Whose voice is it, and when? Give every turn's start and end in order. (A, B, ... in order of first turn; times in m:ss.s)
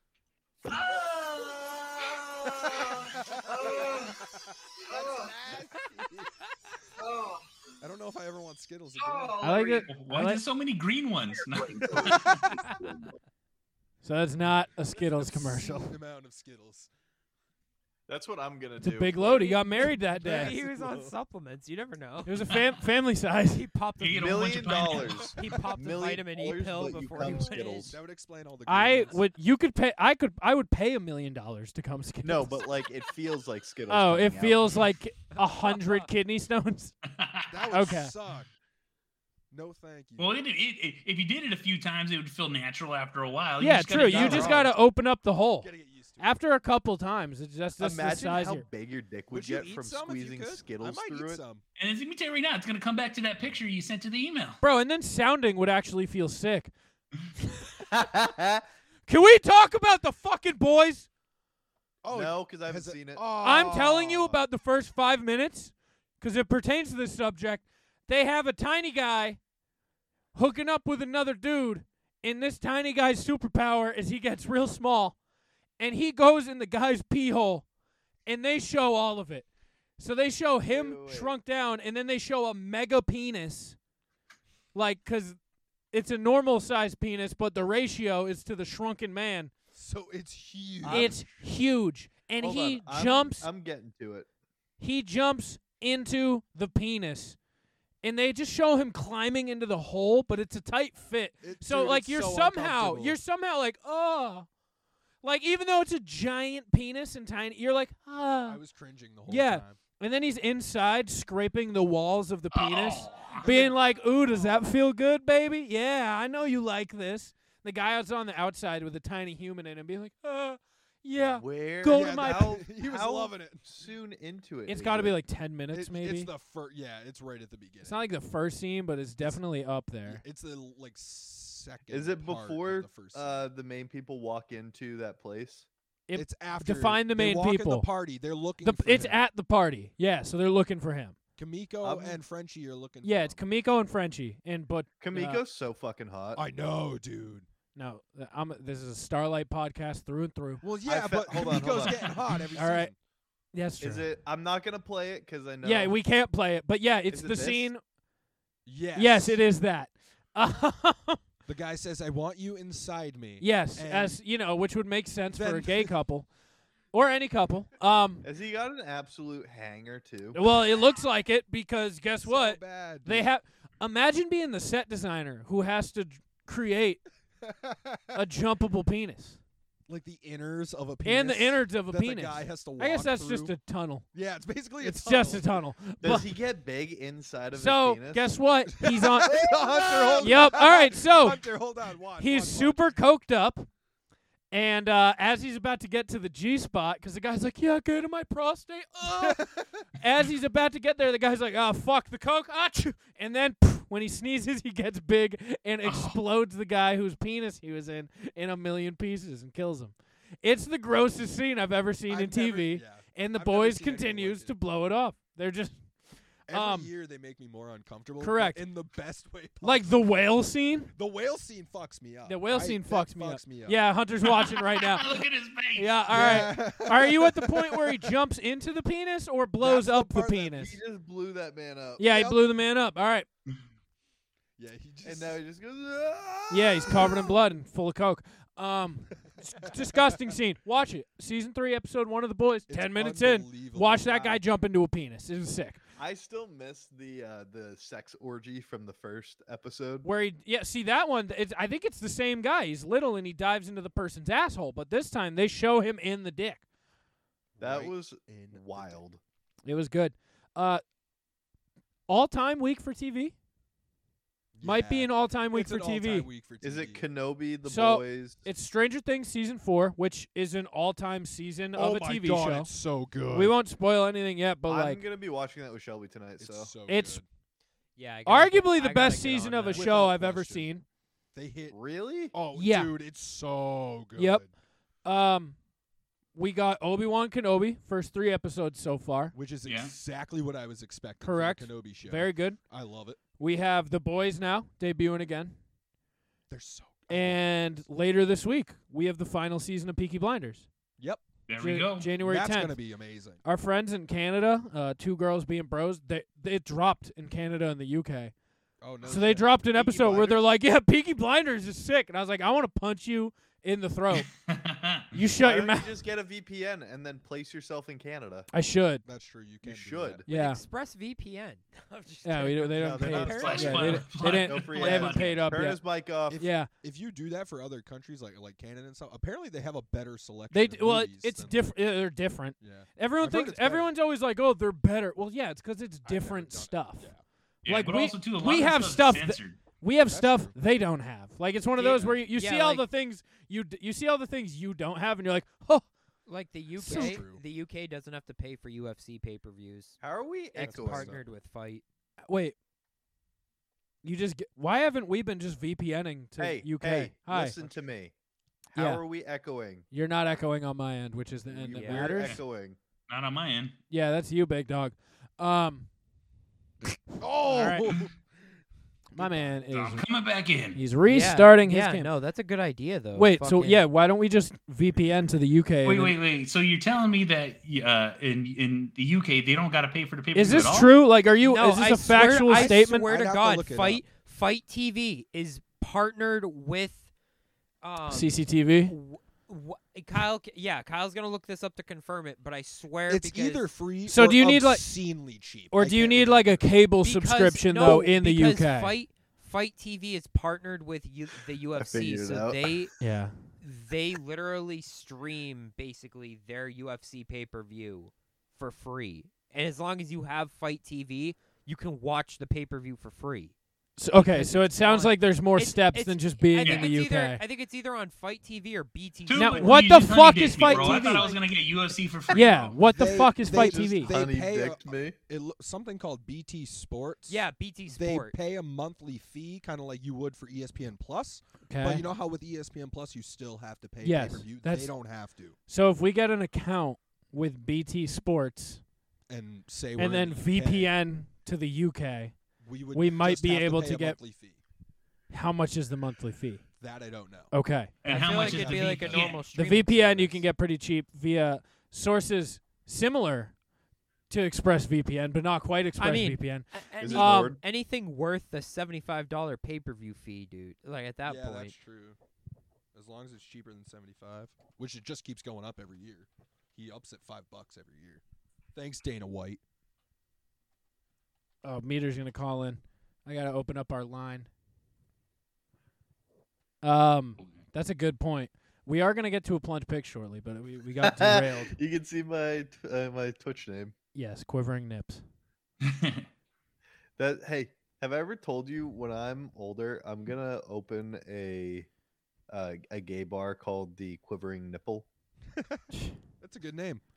0:00.7-0:04.2 A
0:02.5-0:06.3 B
0:04.9-0:05.3 A
0:07.0-0:07.4 A
0:07.8-0:09.4 B
0:09.0-0:09.9 A
0:09.4-0:10.4 C
0:09.9-0:12.4 D
0:11.8-0:12.6 B
0:14.0-0:15.9 C
0:14.4-0:16.9 B
0:18.1-0:19.5 E
0:18.8-0:20.6 C
0:19.4-0:19.6 F
0:20.2-0:21.1 B
0:20.2-0:22.4 F
0:22.2-0:23.6 C
0:23.5-0:24.6 F
0:24.0-0:25.3 D
0:24.2-0:28.0 E
0:25.4-0:28.0 F
0:27.6-0:29.2 B
0:28.7-0:32.6 C
0:32.2-0:34.7 E
0:33.9-0:37.0 C
0:35.3-0:36.1 F
0:37.1-0:37.4 D
0:37.5-0:38.5 B
0:37.7-0:38.1 C
0:39.5-0:40.3 B
0:40.2-0:44.5 D
0:43.6-0:48.7 C
0:44.0-0:44.7 E
0:45.6-0:46.3 B
0:47.8-0:51.4 E
0:49.3-0:51.6 B
0:51.8-0:54.6 D
0:54.6-0:56.7 C
0:57.9-0:58.6 E
0:59.1-1:01.1 C
1:02.0-1:04.4 B
1:02.1-1:03.2 E
1:03.4-1:09.4 C
1:10.4-1:15.2 C
1:15.8-1:17.6 C
1:18.3-1:19.5 C
1:20.0-1:23.8 C
1:20.7-1:21.4 E
1:24.8-1:25.4 C
1:25.9-1:29.5 C
1:29.7-1:31.5 B
1:30.8-1:31.1 E
1:30.9-1:33.5 C
1:32.4-1:34.3 E
1:34.8-1:37.4 C
1:38.0-1:44.5 C
1:41.4-1:43.2 B
1:45.2-1:48.6 C
1:48.5-1:49.8 B
1:49.3-2:02.6 C
1:52.5-1:53.4 D
1:53.4-1:53.8 B
1:54.4-1:54.6 B
2:01.2-2:05.2 E
2:01.9-2:03.7 B
2:04.7-2:06.3 C
2:05.7-2:08.0 B
2:07.8-2:10.2 C
2:10.1-2:13.4 B
2:11.9-2:15.7 E
2:16.1-2:17.9 C
2:16.1-2:19.2 B
2:18.6-2:21.2 C
2:21.4-2:23.4 B
2:21.8-2:22.2 E
2:23.0-2:25.4 C
2:25.0-2:26.4 E
2:26.4-2:27.5 B
2:27.8-2:30.6 C
2:30.6-2:33.0 B
2:30.8-2:32.1 E
2:32.6-2:32.9 C
2:33.5-2:34.1 C
2:33.8-2:36.0 E
2:35.6-2:37.8 C
2:37.1-2:37.7 E
2:38.7-2:39.4 B
2:39.0-2:41.2 C
2:41.5-2:44.2 B
2:43.4-2:46.3 C
2:45.3-2:46.0 B
2:46.9-2:48.2 C
2:48.2-2:50.4 E
2:50.3-2:57.0 C
2:52.2-2:53.3 B
2:57.4-2:58.0 B
2:58.1-2:59.4 C
2:59.9-3:03.6 B
3:01.0-3:04.1 C
3:04.1-3:05.6 B
3:04.8-3:06.3 C
3:06.0-3:08.3 E
3:07.5-3:09.6 C
3:08.8-3:12.8 B
3:09.3-3:10.4 E
3:10.2-3:11.4 C
3:12.2-3:13.7 C
3:14.5-3:35.8 C
3:19.0-3:19.8 B
3:25.8-3:26.2 D
3:32.1-3:34.6 B
3:36.5-3:39.9 B
3:36.5-3:36.9 C
3:38.2-3:38.6 C
3:39.6-3:40.9 C
3:41.0-3:43.9 B
3:42.2-3:45.1 C
3:44.4-3:46.0 D
3:45.8-3:50.8 C
3:46.1-3:48.0 B
3:49.6-3:50.6 B
3:50.6-3:52.2 E
3:52.0-3:53.3 C
3:52.1-3:52.4 B
3:54.6-3:55.4 B
3:55.0-3:56.5 E
3:56.5-4:05.8 C
3:56.7-3:57.3 B
3:59.7-4:00.1 B
4:02.7-4:04.4 B
4:06.0-4:10.1 E
4:10.0-4:16.6 C
4:17.6-4:19.0 B
4:17.6-4:19.2 E
4:19.6-4:20.8 C
4:22.1-4:23.4 C
4:24.6-4:27.1 B
4:24.6-4:26.3 C
4:26.6-4:28.4 E
4:27.7-4:32.7 C
4:31.8-4:33.6 B
4:33.3-4:35.0 C
4:34.7-4:36.7 E
4:36.4-4:37.2 B
4:36.9-4:37.2 C
4:38.0-4:40.1 F
4:38.2-4:40.8 C
4:39.7-4:40.7 B
4:41.3-4:41.8 B
4:41.7-4:42.3 E
4:42.3-4:44.5 B
4:42.5-4:42.9 C
4:44.2-4:44.4 C
4:45.0-4:45.6 C
4:46.4-4:49.4 C
4:49.3-4:53.2 B
4:49.6-4:49.9 D
4:51.2-4:52.6 C
4:53.4-4:55.6 C
4:56.5-4:57.4 B
4:57.1-5:00.7 C
5:01.0-5:01.2 B
5:01.5-5:02.1 D
5:01.6-5:02.9 C
5:02.2-5:03.4 B
5:03.4-5:08.3 C
5:08.8-5:10.5 B
5:09.0-5:14.3 C
5:14.2-5:15.1 D
5:15.1-5:15.9 C
5:15.4-5:18.5 E
5:18.5-5:19.0 C
5:19.0-5:20.3 B
5:19.6-5:20.2 E
5:20.3-5:20.6 C
5:20.3-5:23.8 F
5:22.2-5:25.8 C
5:22.8-5:26.4 E
5:23.3-5:25.4 D
5:26.3-5:31.6 B
5:26.4-5:26.7 C
5:30.5-5:37.1 C
5:32.6-5:33.9 B
5:36.0-5:37.2 B
5:37.6-5:39.6 D
5:37.7-5:45.9 C
5:40.1-5:40.6 B
5:41.8-5:42.9 F
5:41.9-5:42.2 B
5:46.3-5:50.0 F
5:46.8-5:47.4 B
5:46.8-5:47.2 C
5:50.0-5:51.2 E
5:50.5-5:51.8 F
5:50.6-5:51.3 B
5:52.3-5:52.6 C
5:54.0-5:57.6 C
5:56.4-5:58.1 E
5:58.7-5:59.8 E
5:58.7-5:59.0 C
5:59.9-6:02.4 C
6:01.5-6:02.8 E
6:01.7-6:02.3 F
6:03.1-6:03.8 D
6:03.9-6:05.9 C
6:07.2-6:08.3 B
6:07.4-6:07.9 C
6:09.1-6:10.1 C
6:09.2-6:09.6 B
6:09.7-6:10.8 D
6:10.7-6:12.1 C
6:11.1-6:13.8 F
6:13.2-6:16.2 C
6:15.8-6:20.9 D
6:20.3-6:23.1 C
6:21.4-6:27.1 F
6:22.3-6:24.0 B
6:27.8-6:33.8 F
6:28.1-6:28.9 C
6:33.1-6:36.8 B
6:34.1-6:39.0 C
6:37.0-6:43.0 F
6:41.8-6:42.9 E
6:43.0-6:43.4 C
6:43.6-6:53.5 F
6:54.0-6:57.4 C
6:54.2-7:01.4 F
6:56.6-6:56.9 D
6:59.3-7:02.8 D
6:59.4-7:01.3 C
7:02.3-7:04.1 C
7:02.8-7:15.6 B
7:03.5-7:05.2 E
7:07.3-7:08.4 F
7:11.7-7:12.1 C
7:14.0-7:18.8 C
7:19.3-7:21.0 B
7:20.0-7:24.2 C
7:22.6-7:24.6 B
7:25.3-7:26.7 C
7:26.8-7:27.5 B
7:27.5-7:27.9 C
7:28.0-7:29.4 D
7:28.1-7:30.3 F
7:28.2-7:30.4 B
7:29.5-7:33.6 C
7:34.3-7:37.6 C
7:36.0-7:41.8 F
7:37.0-7:37.6 E
7:41.2-7:42.2 B
7:42.9-7:48.2 B
7:48.8-7:49.6 B
7:51.6-7:54.5 C
7:56.8-8:01.8 C
8:01.0-8:03.9 E
8:04.2-8:05.2 C
8:05.8-8:06.3 D
8:07.2-8:11.9 E
8:12.5-8:15.1 E
8:15.6-8:15.8 B
8:16.4-8:17.0 B